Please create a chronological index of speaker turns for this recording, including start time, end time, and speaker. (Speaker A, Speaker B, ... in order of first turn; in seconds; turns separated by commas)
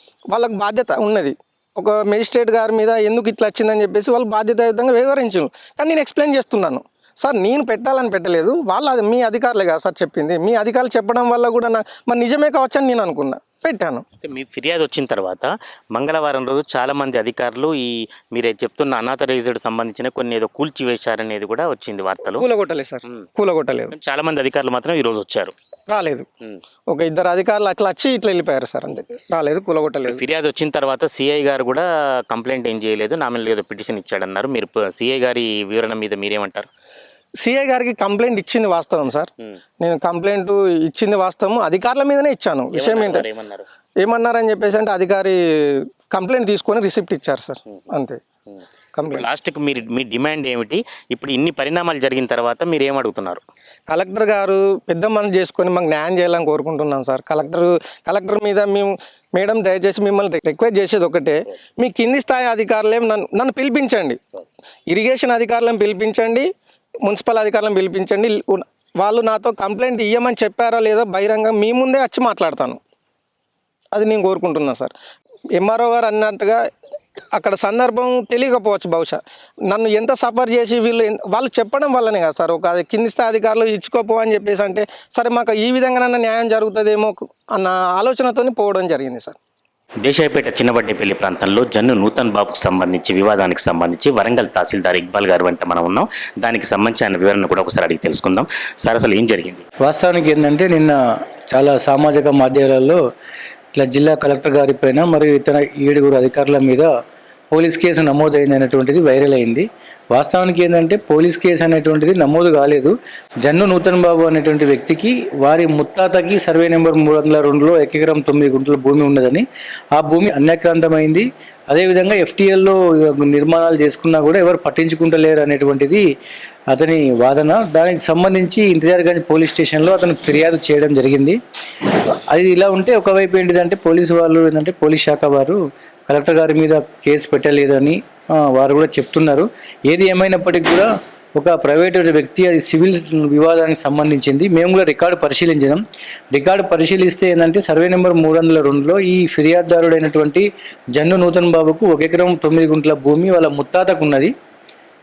Speaker A: 0.3-14.0, Speaker B: 14.2-22.4, Speaker A: 22.3-23.9, Speaker B: 23.9-25.5, Speaker A: 25.9-26.3, Speaker A: 26.9-30.2, Speaker B: 30.1-36.7, Speaker A: 37.4-39.3, Speaker A: 39.8-43.2, Speaker B: 42.7-43.6, Speaker A: 44.0-48.2, Speaker B: 48.5-53.4, Speaker A: 48.9-49.3, Speaker A: 53.9-64.2, Speaker A: 64.9-66.5, Speaker A: 67.0-72.8, Speaker A: 73.9-74.9, Speaker A: 75.6-76.6, Speaker A: 77.3-89.3, Speaker B: 90.0-99.6, Speaker C: 99.8-100.9, Speaker C: 101.5-103.0, Speaker C: 103.8-106.9, Speaker C: 107.5-119.4, Speaker C: 120.0-126.0, Speaker C: 126.7-145.8, Speaker C: 146.3-154.3